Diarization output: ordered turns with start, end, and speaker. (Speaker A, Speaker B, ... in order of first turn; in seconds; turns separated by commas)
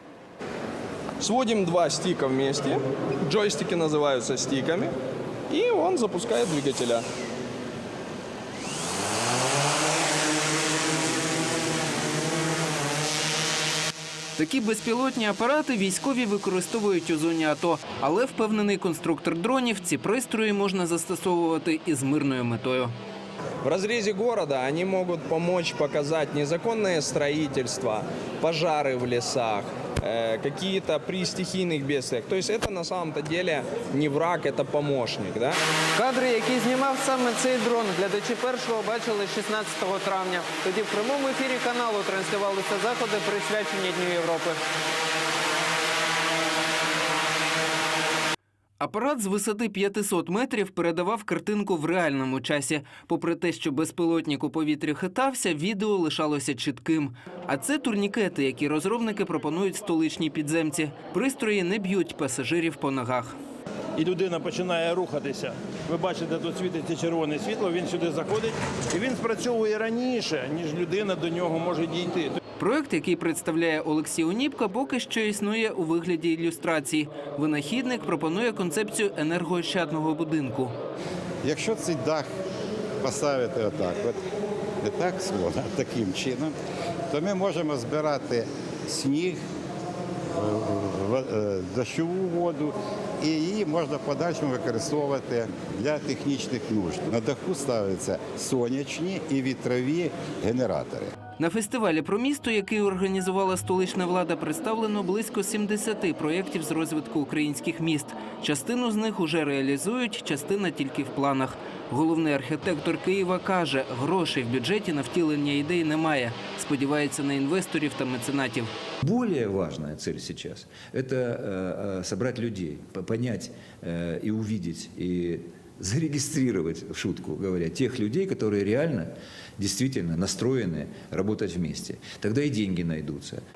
Speaker A: 1.2-4.9, Speaker A: 5.5-7.0, Speaker B: 14.4-22.9, Speaker A: 23.6-35.6, Speaker B: 36.1-36.7, Speaker B: 37.3-38.9, Speaker B: 39.7-40.9, Speaker B: 48.8-63.3, Speaker C: 64.0-72.4, Speaker B: 72.6-80.7, Speaker D: 81.4-82.3, Speaker D: 83.0-84.2, Speaker D: 84.8-86.5, Speaker D: 87.1-89.4, Speaker D: 90.3-101.1, Speaker B: 101.4-118.7, Speaker E: 119.0-133.4